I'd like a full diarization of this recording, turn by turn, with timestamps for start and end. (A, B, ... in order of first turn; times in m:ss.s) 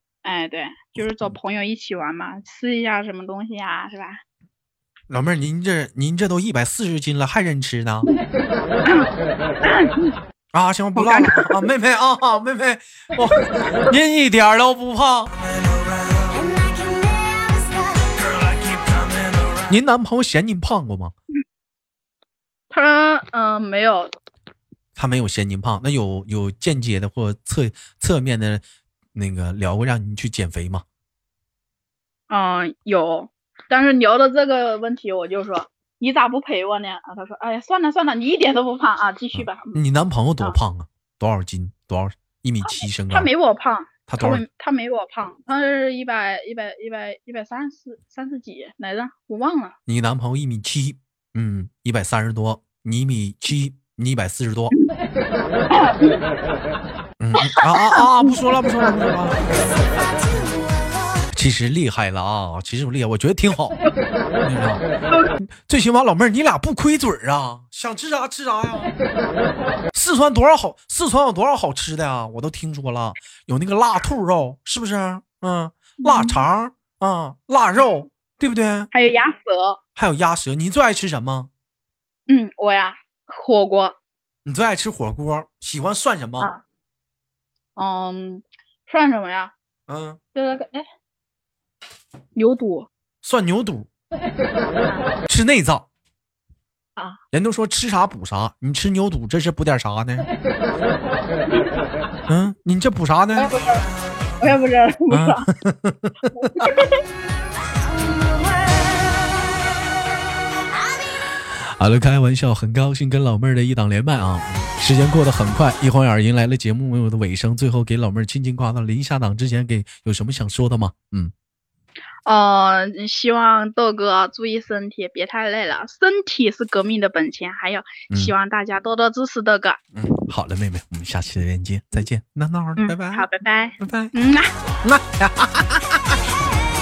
0:00.2-0:04.2 A
0:05.1-0:08.1 B
0:09.6-0:10.1 A
0:10.5-0:15.3 B
0:11.0-0:11.6 A
0:16.1-0:19.1 C
0:19.7-0:21.1 B
0:22.7-0:24.1 A
0:25.0-0:28.6 B
0:29.1-0:30.8 B
0:32.3-0:39.8 A
0:39.3-0:43.3 B
0:42.6-0:49.8 A
0:44.1-0:44.4 B
0:49.9-0:54.7 B
0:55.7-0:56.2 A
0:57.2-0:59.4 B
0:57.4-0:58.3 A
0:59.9-1:01.3 C
1:01.3-1:03.8 B
1:04.4-1:04.8 B
1:05.4-1:08.9 B
1:09.9-1:18.9 B
1:16.0-1:16.4 A
1:18.9-1:19.8 A
1:20.0-1:21.5 B
1:22.3-1:24.0 A
1:24.4-1:26.5 B
1:27.8-1:29.5 A
1:29.9-1:30.2 B
1:30.4-1:30.8 A
1:32.4-1:32.9 A
1:33.2-1:33.9 B
1:35.3-1:35.9 B
1:37.3-1:40.3 B
1:42.3-1:43.5 B
1:43.4-1:43.9 A
1:44.4-1:45.5 A
1:45.1-1:46.7 B
1:46.4-1:47.0 A
1:47.5-1:49.7 C
1:50.6-1:51.2 C
1:51.6-2:01.3 B
2:02.3-2:09.8 A
2:09.9-2:13.3 B
2:12.8-2:14.5 A
2:13.8-2:14.1 B
2:14.8-2:16.2 B